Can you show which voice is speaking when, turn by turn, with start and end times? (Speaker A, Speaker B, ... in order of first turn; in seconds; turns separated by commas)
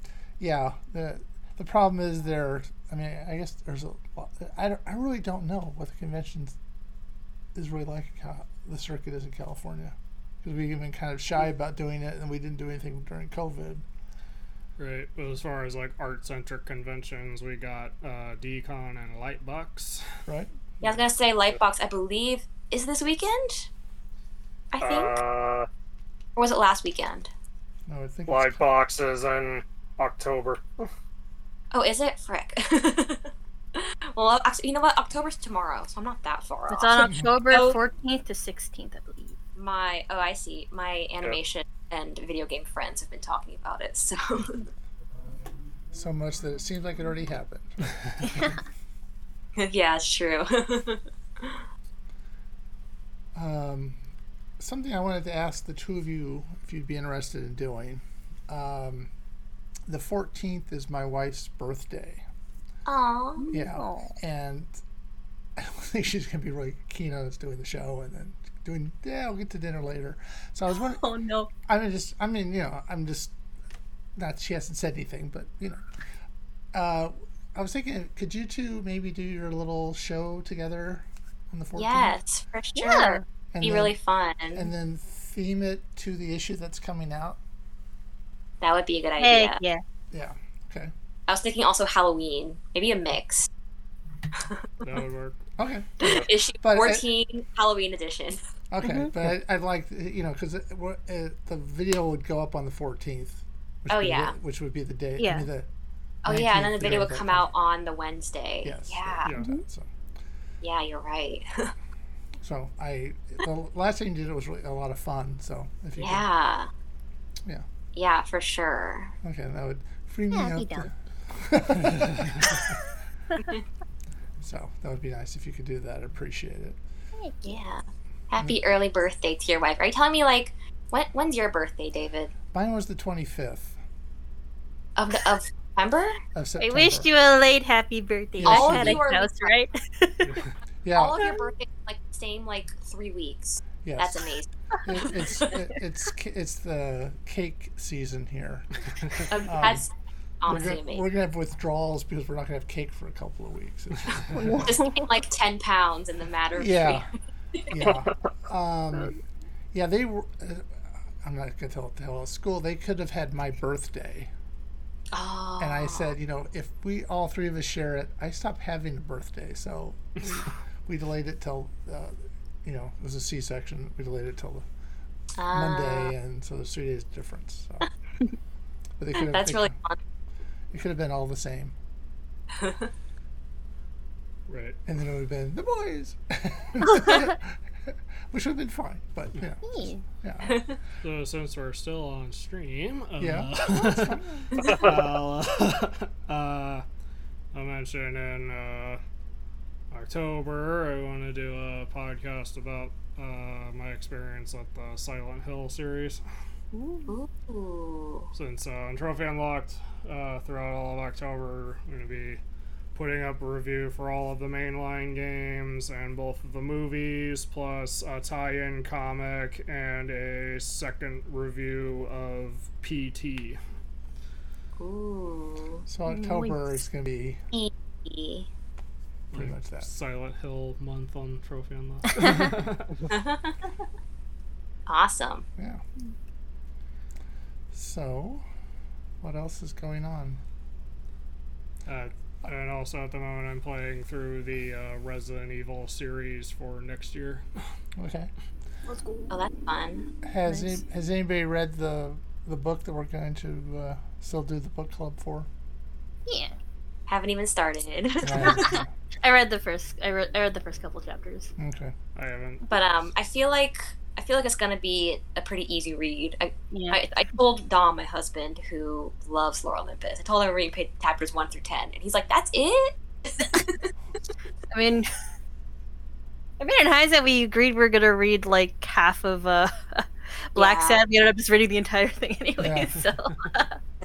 Speaker A: 0.4-6.6, Speaker A: 7.5-13.8, Speaker B: 14.8-20.1, Speaker C: 20.8-23.7, Speaker C: 24.7-25.2, Speaker D: 24.8-25.7, Speaker C: 26.4-27.3, Speaker A: 27.9-28.7, Speaker D: 28.3-30.9, Speaker C: 31.7-37.8, Speaker E: 36.7-39.4, Speaker C: 39.5-44.7, Speaker A: 45.9-48.5, Speaker C: 49.6-51.6, Speaker A: 53.4-54.1, Speaker A: 54.6-59.1, Speaker A: 59.9-62.2, Speaker C: 62.9-63.5, Speaker E: 63.4-64.2, Speaker A: 63.5-64.7, Speaker A: 65.6-71.0, Speaker E: 70.8-71.5, Speaker A: 71.7-73.3, Speaker A: 74.2-75.8, Speaker A: 76.7-82.2, Speaker C: 81.8-84.7, Speaker E: 82.8-83.2, Speaker A: 83.0-84.0, Speaker A: 84.5-87.4, Speaker C: 88.6-89.6, Speaker E: 89.2-89.8, Speaker A: 90.1-90.9, Speaker C: 91.3-93.5, Speaker C: 94.3-94.9, Speaker B: 94.8-95.4, Speaker A: 95.6-96.1, Speaker C: 96.0-98.4, Speaker A: 96.6-97.0, Speaker A: 98.7-105.7, Speaker E: 98.8-99.1, Speaker C: 103.9-104.4, Speaker E: 105.2-105.5, Speaker C: 106.2-109.3, Speaker A: 106.3-107.5, Speaker A: 108.6-109.9, Speaker E: 109.4-109.6, Speaker C: 110.6-111.7, Speaker A: 112.4-116.2, Speaker C: 116.0-116.7, Speaker C: 118.0-119.2, Speaker A: 119.2-122.7, Speaker E: 120.3-120.9, Speaker A: 124.4-126.8, Speaker E: 127.2-127.6, Speaker C: 127.5-132.3, Speaker A: 132.5-133.8, Speaker C: 135.0-136.2, Speaker A: 136.3-137.1, Speaker E: 136.6-140.4, Speaker A: 138.4-139.0, Speaker C: 138.4-139.6, Speaker A: 140.8-141.2, Speaker C: 141.0-144.5, Speaker A: 143.8-144.2, Speaker A: 144.8-149.8, Speaker C: 149.3-151.1, Speaker A: 150.5-154.8, Speaker E: 154.3-155.1, Speaker C: 154.6-157.7, Speaker A: 156.6-157.1, Speaker A: 157.7-159.2, Speaker D: 157.9-158.1, Speaker A: 159.7-164.3, Speaker C: 165.1-166.1, Speaker A: 165.6-174.7, Speaker C: 175.4-176.1, Speaker A: 175.5-177.9, Speaker A: 179.0-179.8, Speaker C: 179.2-180.0, Speaker A: 180.7-181.8, Speaker C: 182.6-182.9, Speaker B: 184.5-184.8, Speaker A: 184.9-190.7, Speaker E: 189.6-190.0, Speaker C: 190.5-190.8, Speaker B: 191.0-196.8, Speaker A: 193.2-194.6, Speaker B: 197.5-199.0, Speaker B: 199.9-206.2, Speaker E: 206.7-207.1, Speaker C: 207.1-208.3, Speaker B: 208.3-212.4, Speaker B: 212.9-223.6, Speaker C: 224.8-225.8, Speaker A: 225.9-227.4, Speaker E: 226.1-226.7, Speaker C: 227.5-228.5, Speaker B: 229.3-233.1, Speaker A: 229.3-229.9, Speaker C: 233.1-233.6, Speaker C: 234.9-235.5, Speaker A: 235.6-235.8, Speaker A: 237.7-238.4, Speaker A: 239.2-240.4, Speaker B: 241.9-247.4, Speaker A: 248.0-248.3, Speaker E: 248.9-249.3, Speaker C: 249.3-250.1, Speaker A: 250.2-255.5, Speaker E: 250.5-250.8, Speaker E: 256.3-256.6, Speaker C: 257.1-258.8, Speaker A: 258.2-258.9, Speaker E: 258.4-261.5, Speaker A: 261.6-261.9, Speaker B: 262.1-262.6, Speaker C: 262.7-273.9, Speaker E: 266.7-267.0, Speaker E: 274.7-275.1, Speaker E: 276.6-283.8, Speaker C: 280.6-281.0, Speaker A: 282.6-283.0